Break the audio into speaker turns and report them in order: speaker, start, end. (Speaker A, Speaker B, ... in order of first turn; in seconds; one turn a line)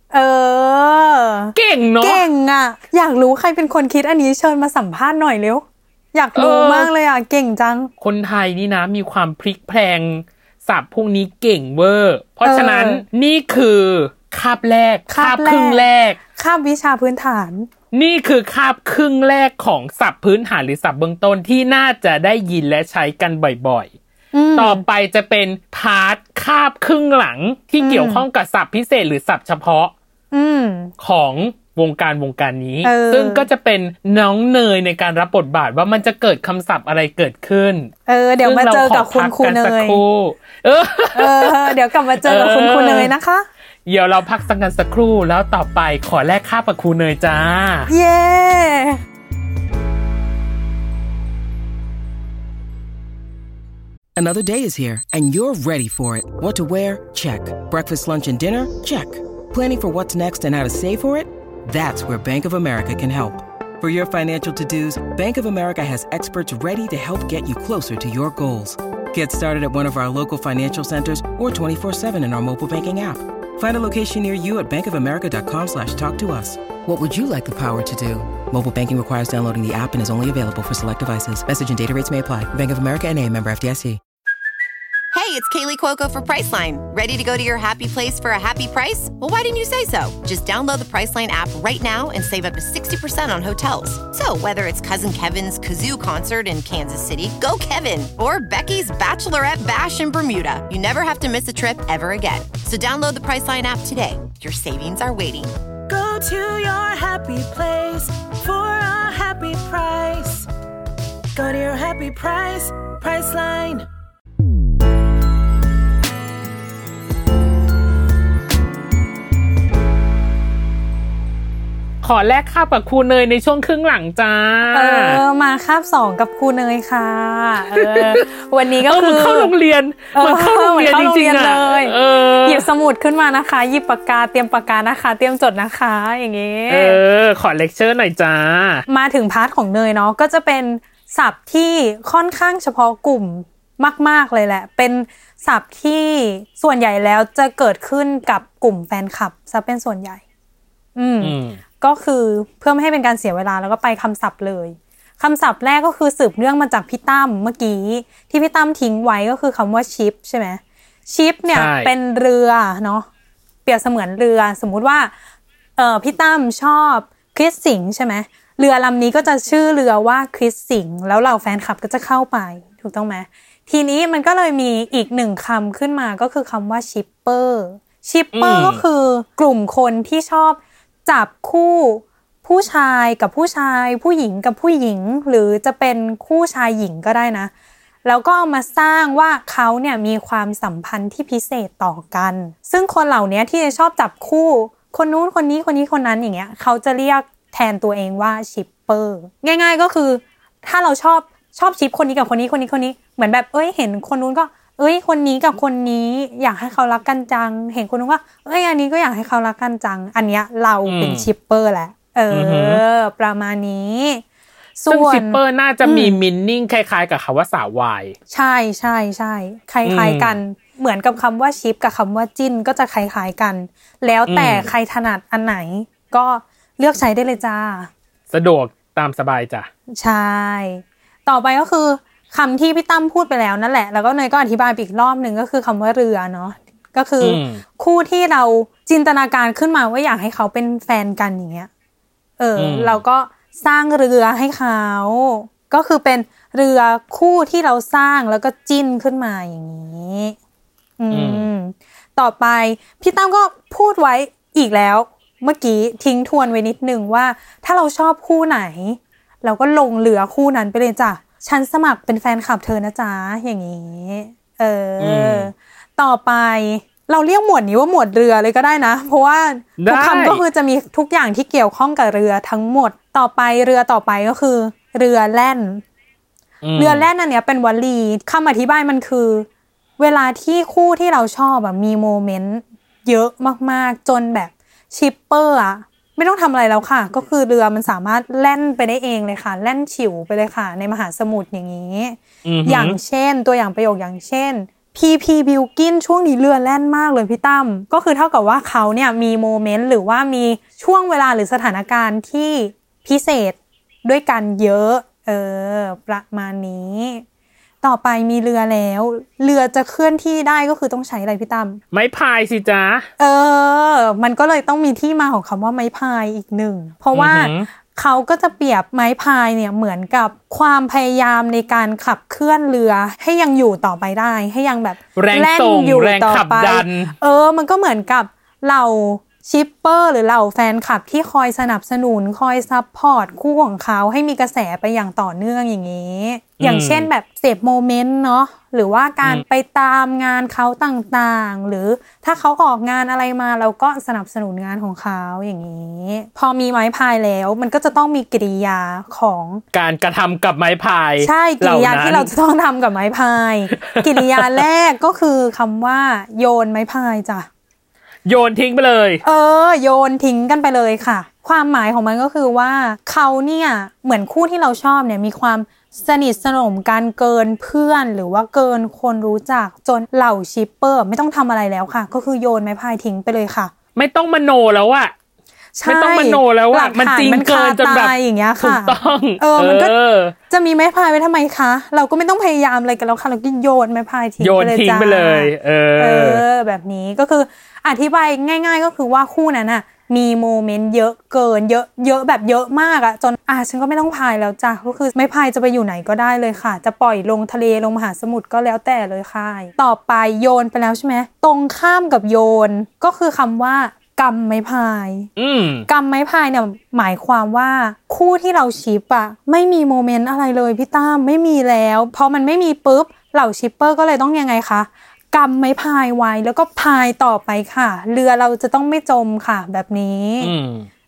Speaker A: 0.1-7.9
Speaker B: 1.5-2.2
Speaker B: 6.3-6.9
Speaker B: 8.0-16.2
Speaker A: 12.4-13.0
Speaker A: 15.1-15.8
Speaker A: 16.4-17.7
Speaker B: 17.9-23.9
Speaker A: 24.3-24.8
Speaker B: 24.6-29.9
Speaker A: 27.8-28.2
Speaker A: 30.3-30.9
Speaker B: 31.0-43.1
Speaker A: 32.8-33.5
Speaker A: 38.1-40.0
Speaker A: 41.1-43.5
Speaker B: 43.9-47.9
Speaker A: 47.9-49.0
Speaker C: 54.1-84.0
Speaker D: 85.1-105.5
Speaker E: 105.9-110.5
Speaker E: 111.3-113.9
Speaker B: 122.0-125.2
Speaker A: 124.7-129.5
Speaker B: 127.6-128.2
Speaker B: 128.8-132.7
Speaker A: 130.1-137.0
Speaker B: 136.7-138.8
Speaker A: 138.9-150.2
Speaker A: 150.9-163.1
Speaker B: 151.2-151.6
Speaker B: 161.5-161.9
Speaker A: 163.6-165.1
Speaker A: 165.8-187.5
Speaker B: 178.3-178.8
Speaker A: 188.0-214.2
Speaker B: 210.8-211.3
Speaker B: 212.3-212.8
Speaker A: 214.8-216.2
Speaker B: 214.9-218.2
Speaker A: 218.3-227.9
Speaker B: 219.8-220.4
Speaker B: 224.3-224.7
Speaker B: 228.3-229.7
Speaker A: 229.9-241.7
Speaker B: 237.2-237.6
Speaker A: 242.4-250.3
Speaker B: 242.6-243.0
Speaker A: 251.0-275.8
Speaker B: 251.1-251.5
Speaker B: 265.0-265.5
Speaker B: 269.8-270.4
Speaker B: 276.6-277.1
Speaker A: 276.8-279.5
Speaker A: 280.0-307.2
Speaker B: 292.4-293.0
Speaker A: 307.8-311.8
Speaker B: 311.9-313.1
Speaker A: 313.2-349.6
Speaker B: 317.1-317.7
Speaker B: 325.1-327.1
Speaker B: 336.6-337.1
Speaker B: 349.7-352.3
Speaker A: 351.2-357.5
Speaker B: 353.9-354.5
Speaker B: 358.2-359.2
Speaker A: 359.2-373.7
Speaker B: 373.9-375.1
Speaker A: 375.8-379.9
Speaker B: 375.8-380.3
Speaker A: 380.5-405.3
Speaker B: 384.4-386.4
Speaker B: 405.4-405.9
Speaker A: 405.9-420.5
Speaker B: 420.4-420.9